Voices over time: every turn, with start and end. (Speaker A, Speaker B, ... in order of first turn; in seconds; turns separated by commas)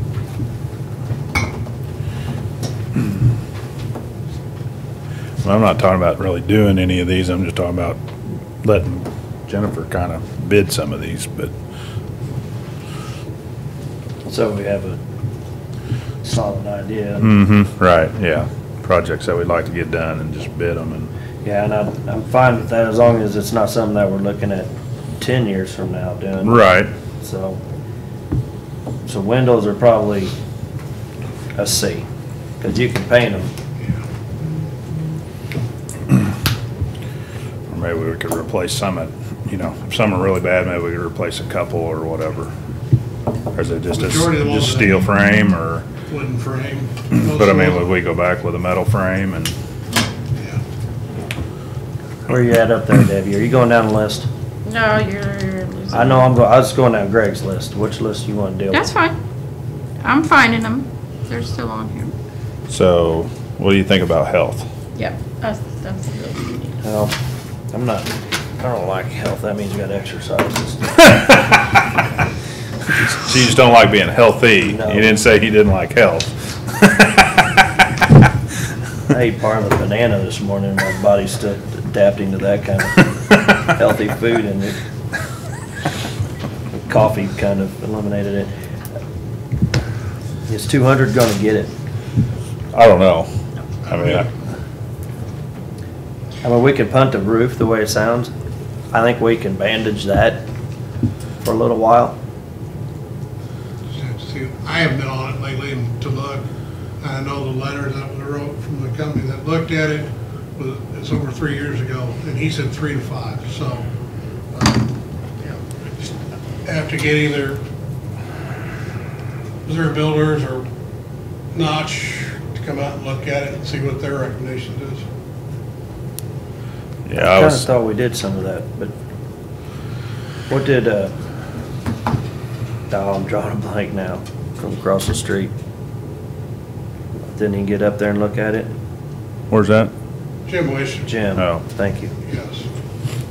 Speaker A: 5.4-8.0, Speaker A: 8.6-11.5, Speaker B: 14.2-15.0, Speaker B: 16.2-17.3, Speaker A: 17.2-21.1, Speaker B: 21.4-26.6, Speaker A: 26.4-26.9, Speaker B: 27.2-27.6, Speaker B: 29.1-30.3, Speaker B: 31.6-32.0, Speaker B: 32.6-33.5, Speaker A: 37.7-42.5, Speaker A: 43.5-45.9, Speaker C: 43.9-45.1, Speaker C: 46.1-47.9, Speaker A: 47.1-49.5, Speaker C: 50.4-50.6, Speaker B: 52.3-54.3, Speaker D: 54.6-56.3, Speaker B: 55.9-58.9, Speaker D: 58.7-59.1, Speaker D: 60.0-62.1, Speaker A: 62.7-64.7, Speaker D: 65.0-66.8, Speaker B: 66.8-67.2, Speaker B: 67.7-71.2, Speaker A: 73.0-77.3, Speaker B: 74.7-75.2, Speaker B: 79.1-84.8, Speaker B: 86.7-88.5, Speaker B: 90.5-91.7, Speaker A: 92.7-93.3, Speaker A: 93.8-94.3, Speaker C: 93.9-94.2, Speaker B: 96.4-98.3, Speaker B: 98.9-100.4, Speaker B: 101.4-102.2, Speaker C: 103.9-106.5, Speaker C: 107.0-113.9, Speaker C: 114.5-116.1, Speaker C: 116.7-117.6, Speaker C: 119.7-120.7, Speaker C: 121.5-125.0, Speaker A: 127.1-127.7, Speaker B: 127.2-128.9, Speaker B: 130.5-131.1, Speaker B: 132.9-135.5, Speaker B: 137.2-138.7, Speaker A: 139.5-139.9, Speaker C: 140.5-141.1, Speaker B: 141.0-142.1, Speaker A: 141.3-141.6, Speaker C: 142.2-142.7